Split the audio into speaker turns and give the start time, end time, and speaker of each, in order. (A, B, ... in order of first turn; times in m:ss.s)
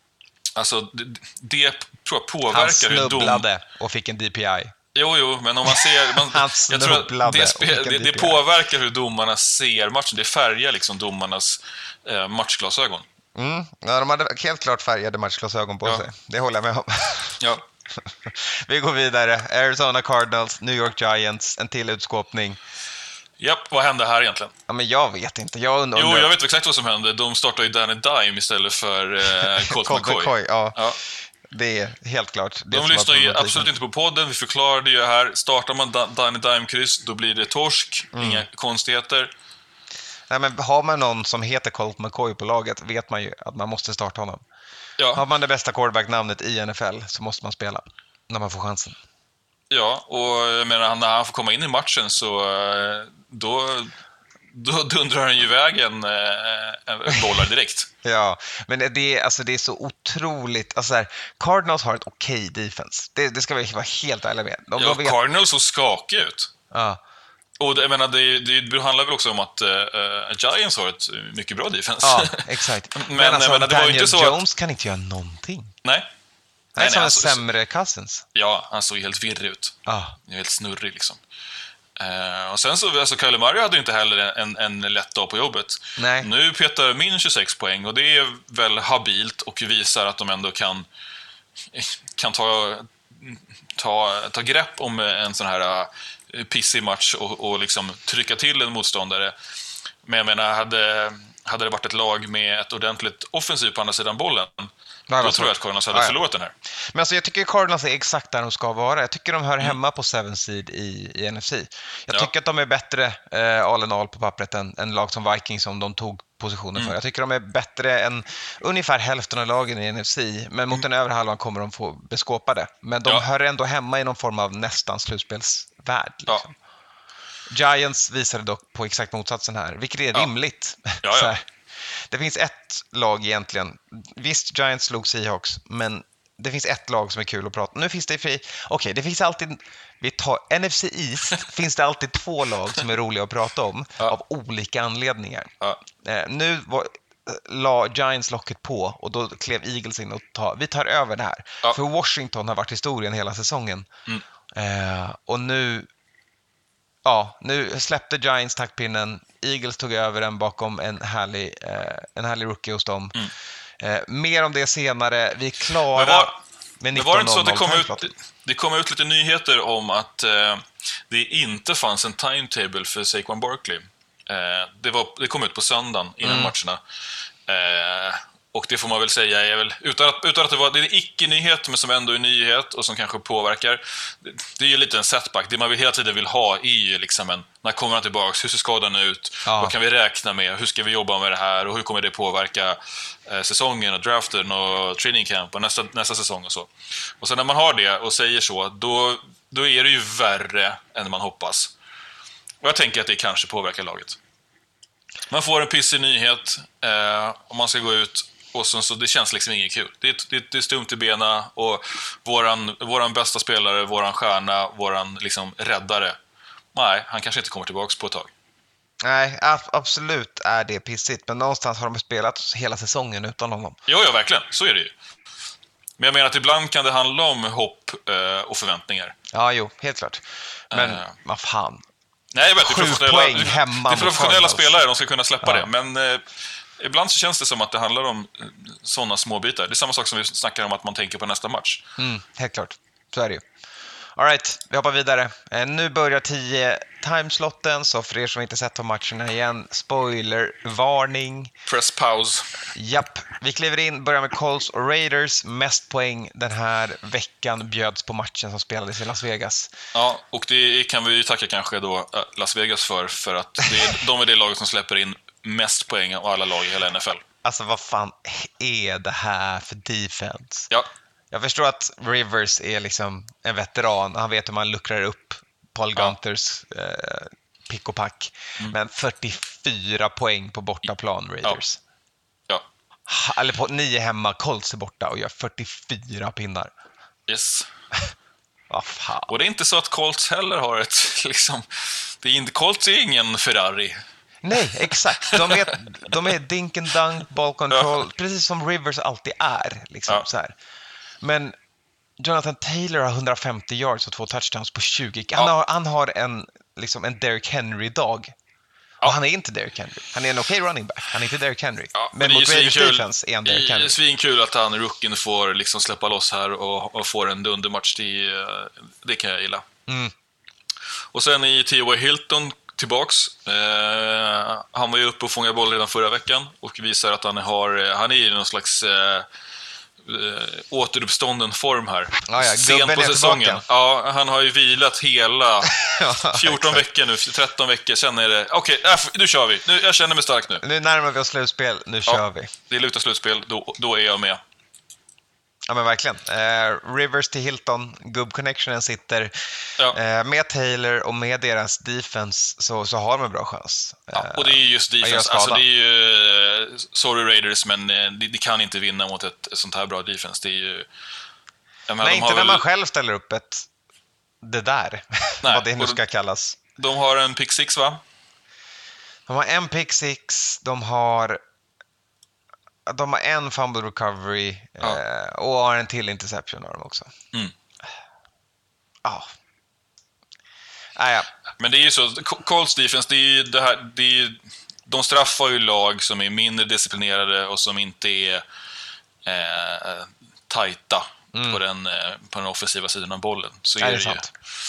0:00.6-0:03.4 A
0:02.5-0:04.7 B
0:04.9-0:13.0 A
0:05.6-0:08.4 B
0:13.3-0:17.4 B
0:17.4-0:17.6 A
0:18.0-0:22.6 B
0:23.4-0:24.5 A
0:24.7-0:26.3 B
0:25.9-0:31.0 A
0:29.6-0:30.8 B
0:31.5-0:33.7 B
0:32.7-0:39.3 A
0:38.1-0:38.4 B
0:40.3-0:44.4 B
0:45.0-0:45.2 A
0:45.1-0:49.0 B
0:49.7-0:53.9 A
0:54.5-0:57.9 A
0:58.0-1:05.2 B
1:04.8-1:06.5 A
1:06.7-1:07.0 B
1:07.6-1:14.4 A
1:12.0-1:15.7 B
1:16.8-1:18.2 B
1:16.8-1:17.4 A
1:18.3-1:21.2 A
1:19.8-1:20.1 B
1:22.0-1:30.9 A
1:26.0-1:26.3 B
1:31.7-1:39.3 A
1:40.0-1:46.5 A
1:45.1-1:46.2 B
1:46.9-2:06.5 B
2:07.5-2:33.9 B
2:11.0-2:11.3 A
2:34.5-2:35.9 B
2:37.0-2:43.2 B
2:43.8-2:48.1 B
2:45.9-2:46.4 A
2:46.9-2:56.8 A
2:56.2-2:56.5 B
2:57.5-3:21.7 A
3:09.4-3:09.7 B
3:22.6-3:24.2 A
3:25.3-3:36.2 A
3:36.7-3:38.3 A
3:39.0-3:43.8 B
3:43.9-3:44.9 A
3:46.0-3:49.2 A
3:49.3-3:51.8 B
3:50.7-3:51.1 A
3:52.3-3:56.2 A
3:52.6-3:54.7 B
3:55.4-3:55.7 B
3:56.8-4:01.8 A
4:02.0-4:03.4 B
4:04.2-4:11.5 B
4:11.6-4:12.7 A
4:12.7-4:19.7 B
4:19.9-4:27.2 A
4:27.4-4:30.7 B
4:31.3-4:41.8 B
4:43.1-4:46.7 B
4:47.3-4:47.7 A
4:48.7-4:49.3 B
4:49.3-4:54.0 A
4:54.4-5:00.5 B
4:55.2-4:55.7 A
5:01.2-5:01.6 B
5:02.2-5:08.3 B
5:09.0-5:14.0 B
5:11.9-5:19.6 A
5:19.9-5:20.1 B
5:21.1-5:29.3 A
5:30.0-5:40.6 A
5:32.3-5:33.6 B
5:35.6-5:36.8 B
5:40.6-5:42.5 B
5:42.1-5:44.4 A
5:45.6-5:55.6 B
5:54.1-6:00.8 A
6:01.9-6:02.6 A
6:02.0-6:03.7 B
6:04.4-6:06.6 B
6:05.4-6:06.0 A
6:06.8-6:08.0 A
6:09.3-6:11.4 B
6:12.9-6:17.1 B
6:19.0-6:19.3 B
6:21.0-6:21.3 B
6:21.6-6:28.4 A
6:29.2-6:34.3 A
6:31.3-6:31.6 B
6:33.8-6:34.3 B